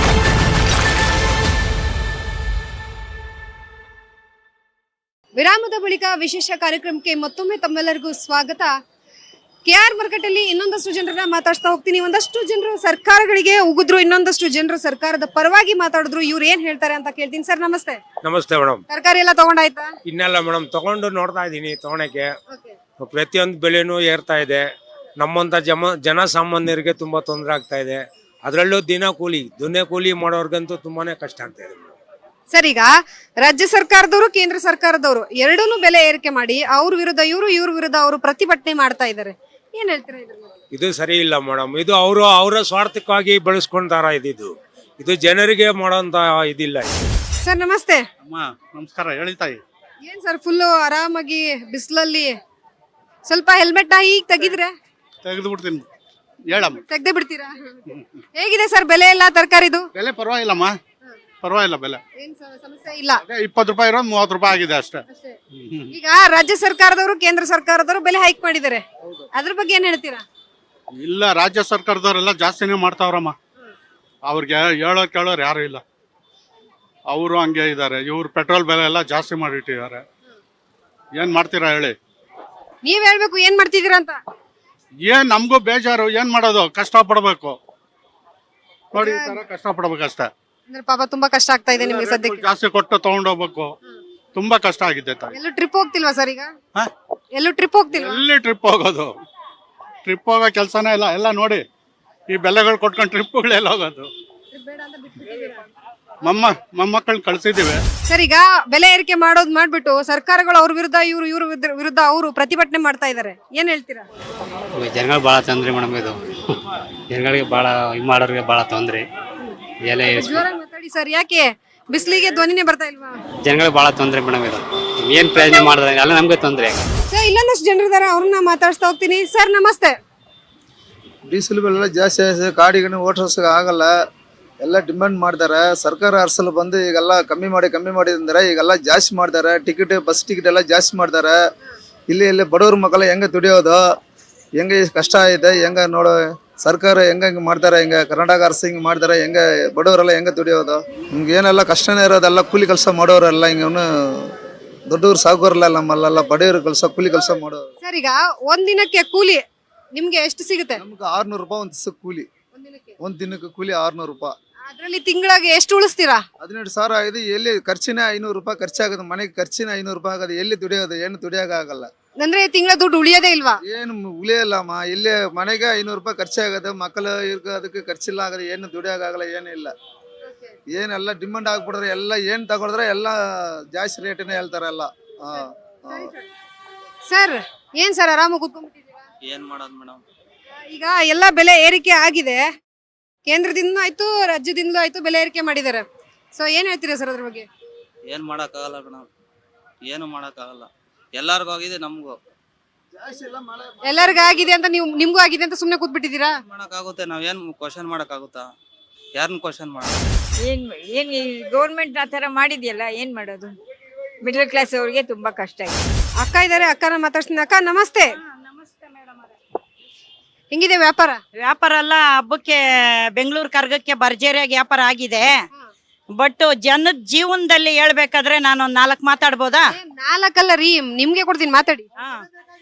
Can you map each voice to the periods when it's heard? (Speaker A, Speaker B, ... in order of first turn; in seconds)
Speaker A: 5.4-8.8, 9.7-18.0, 18.9-19.9, 32.5-32.9, 33.4-40.5, 47.5-48.0, 50.0-52.3, 53.3-54.7, 56.9-57.5, 58.4-59.9, 62.2-63.2, 65.1-65.3, 65.9-70.2, 82.8-84.2, 89.0-89.3, 90.7-92.5, 95.3-96.5, 97.4-98.2, 104.5-105.6, 108.1-114.1, 120.2-123.2, 127.1-129.9, 157.8-159.4, 159.9-160.8, 162.6-162.9, 164.7-166.2, 172.2-173.6, 180.3-180.5, 185.9-186.2, 187.1-189.0, 190.7-192.5, 193.3-197.5, 203.8-206.3, 216.2-218.1, 220.5-221.2, 229.7-231.9
Speaker B: 18.2-18.8, 20.1-22.4, 23.0-24.7, 25.2-31.9, 40.7-47.1
Speaker C: 48.2-49.6, 55.2-55.8, 56.5-56.8, 60.0-60.8, 61.4-62.0, 63.3-65.0, 65.5-65.9, 70.9-73.4, 74.3-75.8, 77.1-80.0, 81.2-82.0, 85.0-87.6, 89.0-90.3, 91.9-93.7, 94.3-95.3, 97.9-99.1, 100.1-101.6, 102.3-104.1, 106.2-107.8
Speaker D: 114.8-116.2, 117.1-119.0, 119.9-120.4, 123.5-126.8
Speaker E: 131.3-133.9, 134.6-141.4, 142.1-143.8, 144.6-154.3, 154.9-157.6, 160.8-162.3, 163.0-164.3, 166.4-171.9, 173.7-179.7, 180.7-183.2, 183.7-186.1
Speaker F: 189.3-190.0, 198.1-199.1, 199.9-202.2, 206.5-208.4, 209.2-210.0
Speaker G: 210.4-213.5, 214.2-215.8
Speaker H: 221.4-222.6, 223.2-225.3, 226.2-229.7